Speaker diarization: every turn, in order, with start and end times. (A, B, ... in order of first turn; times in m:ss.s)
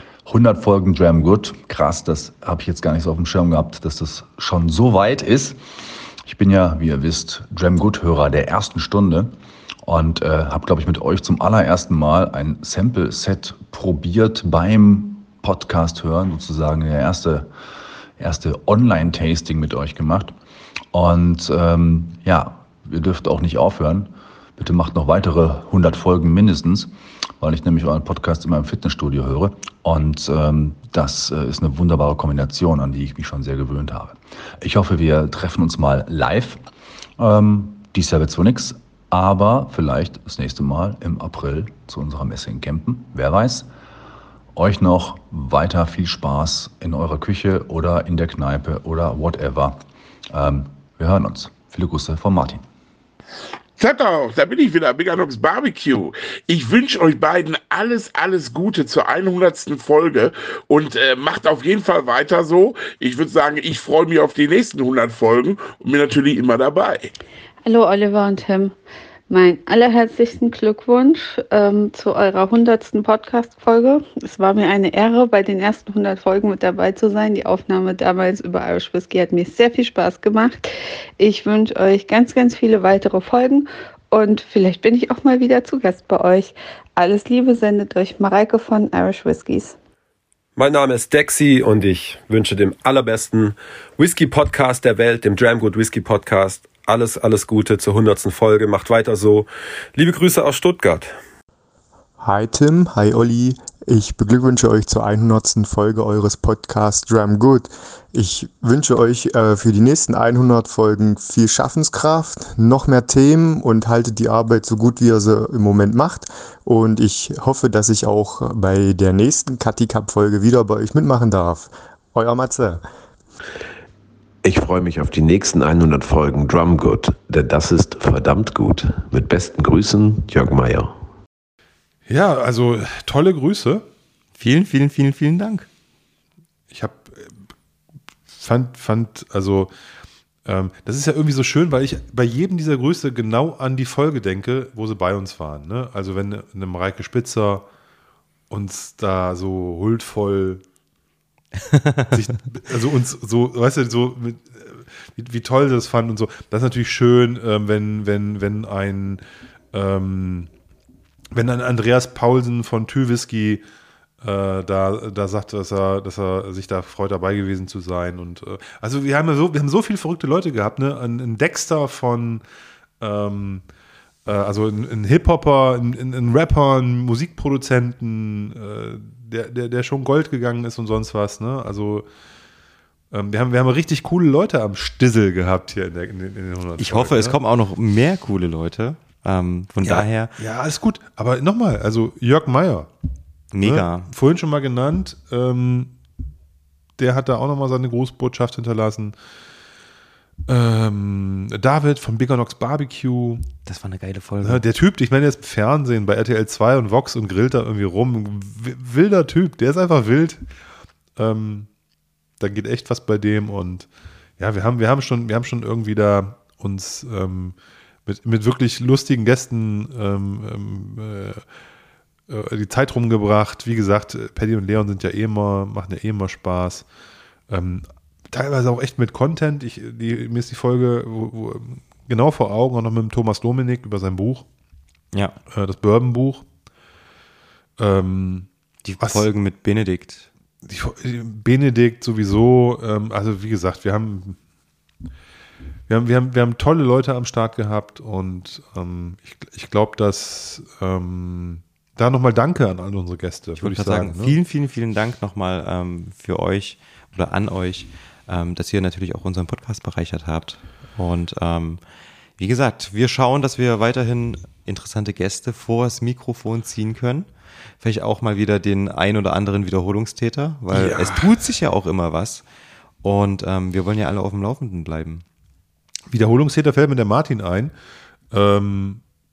0:00.2-0:17.5 A
0:18.2-0:20.3 A
0:20.9-0:36.6 A
0:37.2-0:43.7 A
0:44.5-0:52.6 A
0:53.8-1:07.1 B
1:07.6-1:08.7 C
1:09.3-1:29.8 C
1:30.6-1:41.1 D
1:42.2-2:02.8 E
2:04.4-2:11.0 F
2:12.0-2:13.8 G
2:14.4-2:15.7 H
2:16.7-2:17.4 G
2:18.3-2:19.7 G
2:20.4-2:27.7 G
2:28.5-2:30.6 G
2:31.7-2:32.1 H
2:32.1-2:40.5 G
2:41.3-2:43.6 G
2:44.2-2:52.4 G
2:53.0-2:53.6 G
2:54.2-3:02.1 G
3:03.1-3:07.4 G
3:06.8-3:10.3 H
3:09.8-3:12.9 G
3:13.5-3:14.1 H
3:13.6-3:15.9 G
3:17.0-3:19.1 G
3:20.5-3:23.4 G
3:23.6-3:24.6 H
3:24.4-3:30.4 G
3:31.2-3:31.7 G
3:32.4-3:33.9 G
3:34.4-3:41.4 G
3:42.3-3:46.8 G
3:47.5-3:54.5 G
3:55.5-3:56.4 G
3:57.8-3:58.5 G
3:58.8-4:00.3 H
3:59.0-3:59.3 G
4:00.6-4:04.4 G
4:05.9-4:14.4 G
4:13.6-4:21.8 H
4:22.4-4:27.3 H
4:27.8-4:32.4 H
4:30.7-4:31.5 G
4:33.0-4:35.2 H
4:36.1-4:37.7 G
4:38.3-4:39.0 G